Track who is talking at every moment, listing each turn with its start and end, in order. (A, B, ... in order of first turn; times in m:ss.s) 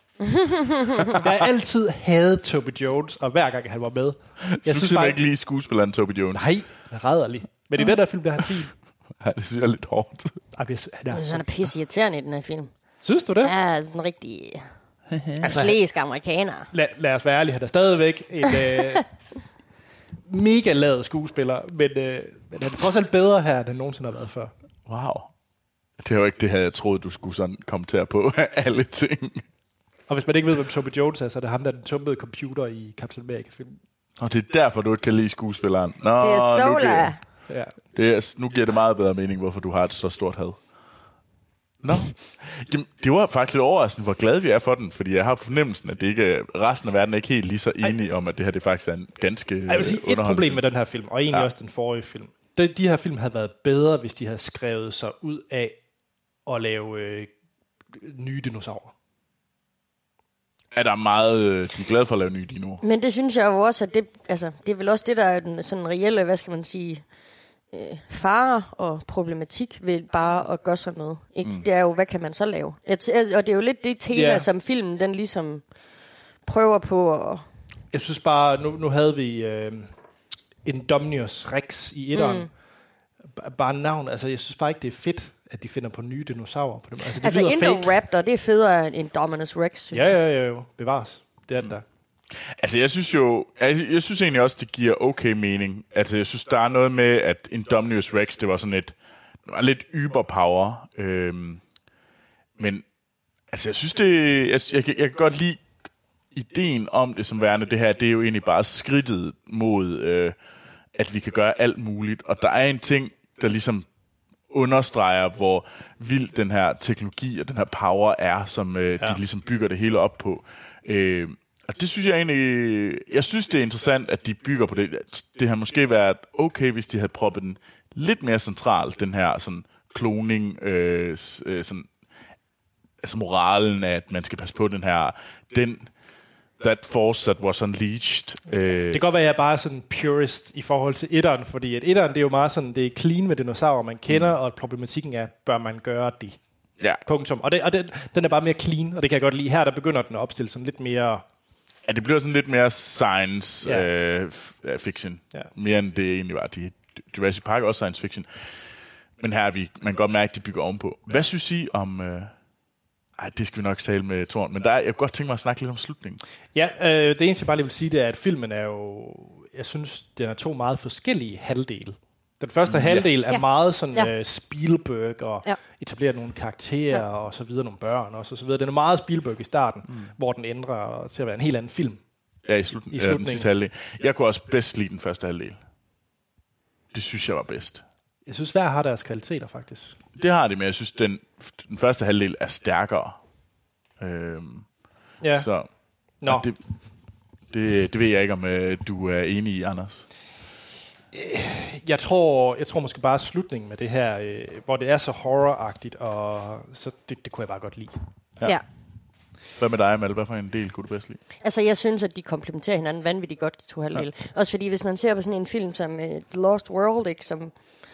0:00.3-0:01.1 A
0:01.1-0:05.2 B
0:04.4-0:06.5 C
0:06.3-0:08.7 B
0:09.2-0:10.4 C
0:10.5-0:11.4 B
0:11.1-0:12.7 A
0:13.0-0:13.5 B
0:13.4-0:14.6 A
0:15.1-0:15.4 C
0:15.4-0:16.7 A
0:16.7-0:19.0 B
0:20.2-0:24.5 B
0:24.8-0:25.3 C
0:26.0-0:29.4 C
0:30.1-0:33.8 B
0:34.2-0:37.1 C
0:36.2-0:37.2 A
0:37.5-0:37.7 B
0:37.9-0:40.6 C
0:41.8-0:50.6 C
0:49.7-0:55.8 B
0:56.4-0:57.3 B
0:57.9-0:58.9 B
1:00.7-1:02.8 C
1:02.8-1:07.0 A
1:07.7-1:15.6 A
1:14.1-1:14.5 B
1:16.4-1:17.4 A
1:17.9-1:19.9 B
1:20.6-1:22.5 B
1:22.1-1:22.5 A
1:23.4-1:27.9 B
1:27.2-1:30.1 A
1:29.9-1:31.8 B
1:32.4-1:38.9 C
1:39.5-1:41.6 C
1:42.6-1:42.8 C
1:43.5-1:45.6 C
1:46.3-1:50.3 C
1:50.9-1:53.8 C
1:54.5-2:11.9 C
2:13.0-2:15.9 C
2:16.6-2:19.0 C
2:18.9-2:26.4 B
2:27.0-2:31.2 B
2:31.8-2:38.3 C
2:33.6-2:33.9 B
2:39.2-2:42.3 C
2:43.2-2:46.2 C
2:46.5-3:02.0 B
2:52.7-2:53.1 C
2:53.3-2:54.1 A
3:02.4-3:05.6 C
3:02.9-3:03.5 B
3:06.9-3:07.8 C
3:08.2-3:10.0 B
3:10.2-3:13.2 C
3:14.0-3:14.6 C
3:15.2-3:15.5 B
3:15.3-3:15.7 C
3:16.2-3:16.5 B
3:16.2-3:16.6 C
3:17.5-3:20.0 C
3:21.1-3:27.9 B
3:29.6-3:31.2 C
3:31.4-3:37.5 A